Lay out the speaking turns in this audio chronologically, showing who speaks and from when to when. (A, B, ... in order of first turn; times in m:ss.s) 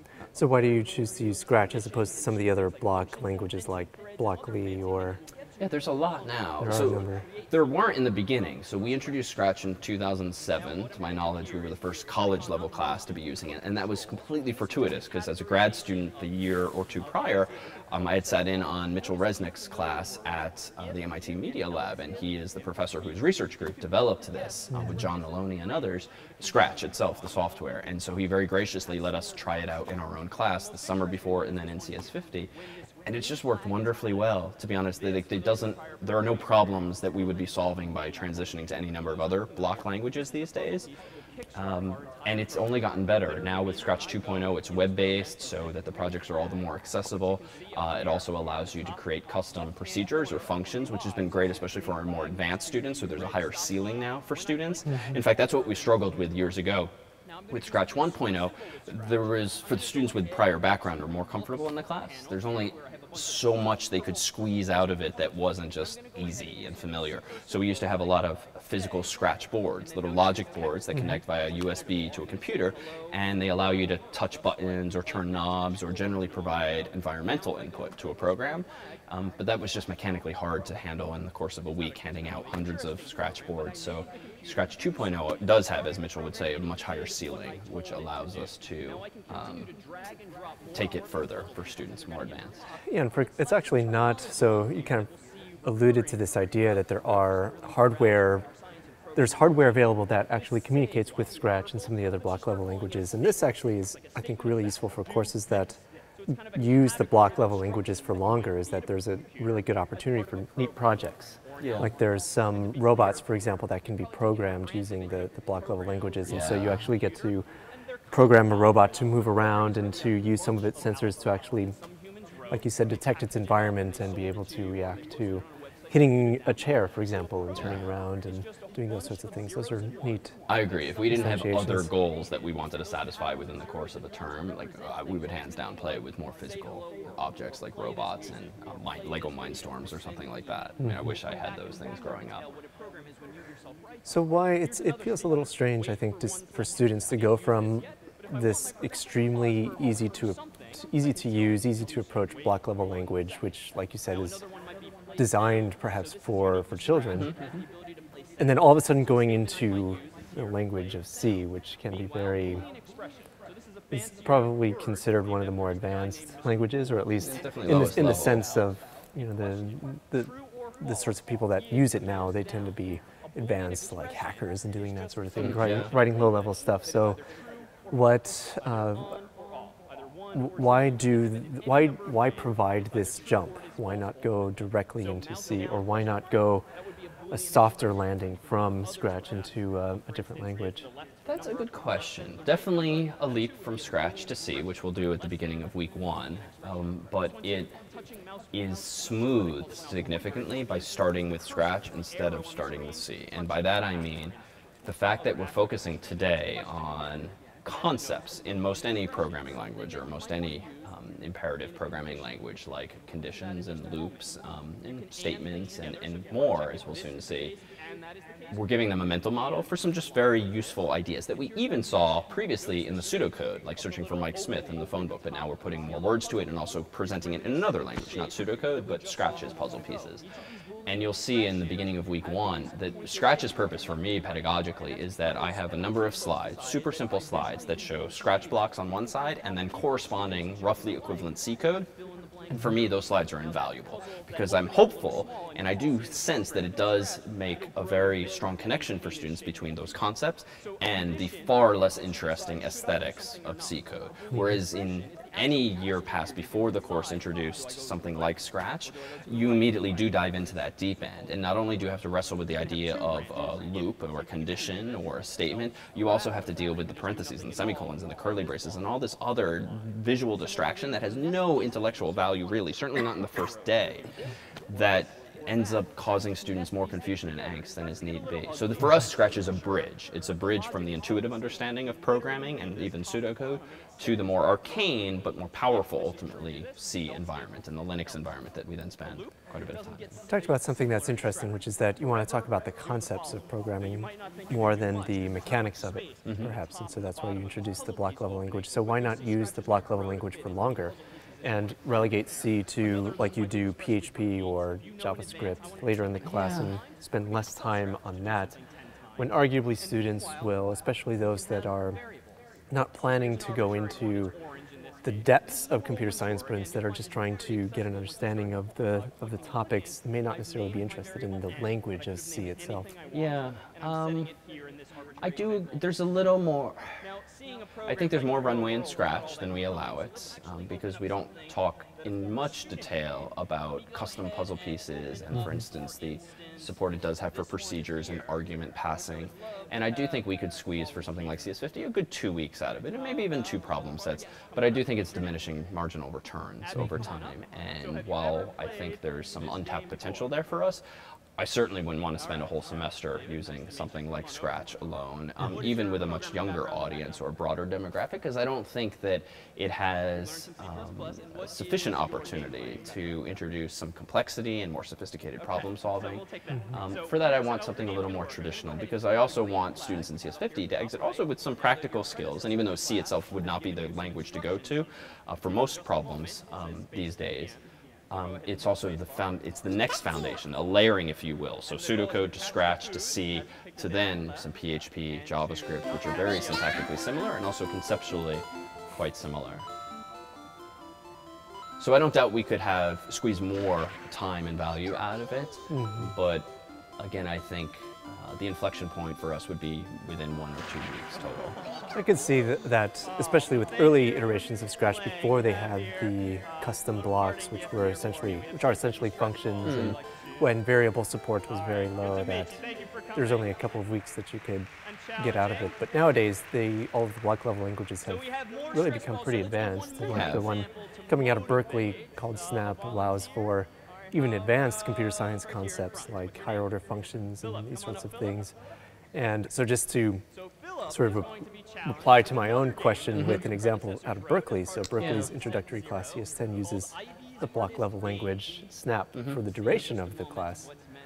0:00.3-0:05.2 A
0:05.6-0:32.5 B
0:06.6-0:07.2 A
0:33.0-0:40.9 B
0:41.5-0:56.9 B
0:57.5-1:29.7 B
1:30.7-1:32.6 B
1:32.9-1:35.1 A
1:35.6-1:38.5 A
1:39.2-1:57.4 A
1:51.6-1:51.9 B
1:56.2-1:56.8 B
1:58.1-2:01.8 A
2:02.5-2:10.3 A
2:07.6-2:07.8 B
2:10.5-2:22.5 B
2:11.1-2:11.9 A
2:24.0-2:34.4 A
2:35.2-2:37.3 A
2:37.2-2:37.6 B
2:38.4-2:42.6 A
2:43.9-2:57.2 A
2:47.2-2:48.4 B
2:55.4-2:55.9 B
2:57.9-2:59.2 A
3:00.3-3:06.6 A
3:07.3-3:10.9 A
3:11.2-3:17.8 B
3:18.5-3:37.6 B
3:38.5-3:50.2 B
3:50.8-4:01.9 B
4:02.5-4:34.1 B
4:34.7-4:50.2 B
4:50.3-5:08.6 A
4:56.2-4:56.5 B
5:06.3-5:06.7 B
5:09.2-5:12.0 A
5:12.7-5:14.4 A
5:15.0-5:22.9 A
5:23.1-5:24.3 B
5:25.2-5:26.8 B
5:27.8-5:50.8 B
5:51.4-6:17.6 B
6:18.1-6:29.6 B
6:31.8-6:41.6 B
6:35.7-6:36.1 A
6:41.9-6:52.6 A
6:49.6-6:50.0 B
6:53.1-7:08.5 A
7:00.1-7:00.5 B
7:09.1-7:10.2 A
7:10.8-7:20.7 A
7:13.1-7:13.4 B
7:15.0-7:15.3 B